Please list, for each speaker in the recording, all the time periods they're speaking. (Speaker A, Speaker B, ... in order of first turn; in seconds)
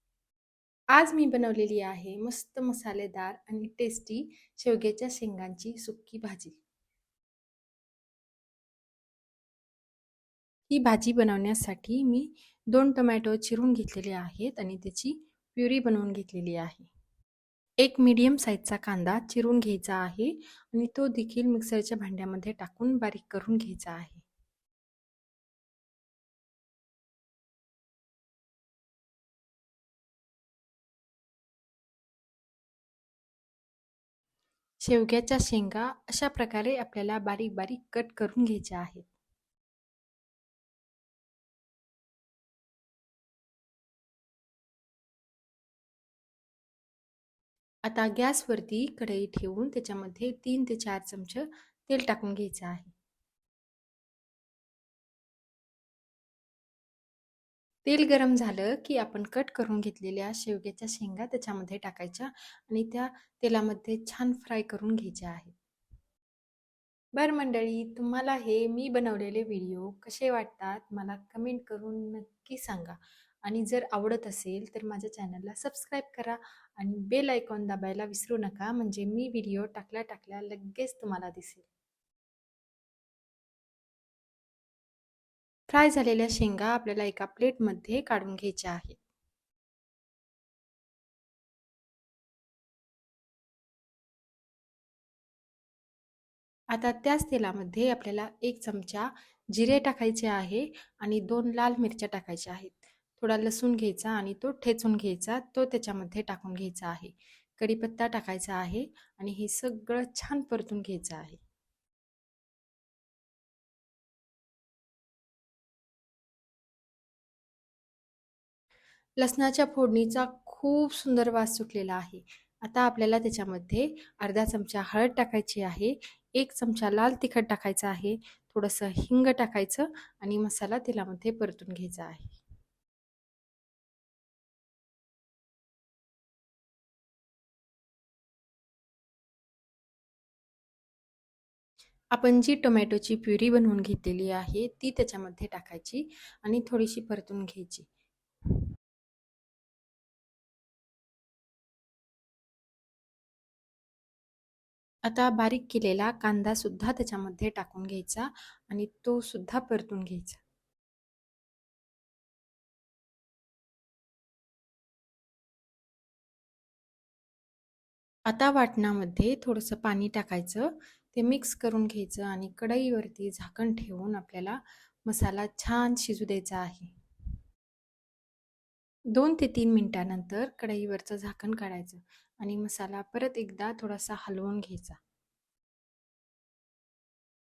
Speaker A: 0.9-6.6, 10.7-16.9, 17.8-24.2, 34.8-39.1, 47.9-52.9, 57.9-65.5, 67.2-81.7, 85.7-89.0, 96.7-111.4, 119.2-132.4, 142.1-147.9, 155.1-160.4, 168.3-176.9, 179.1-185.0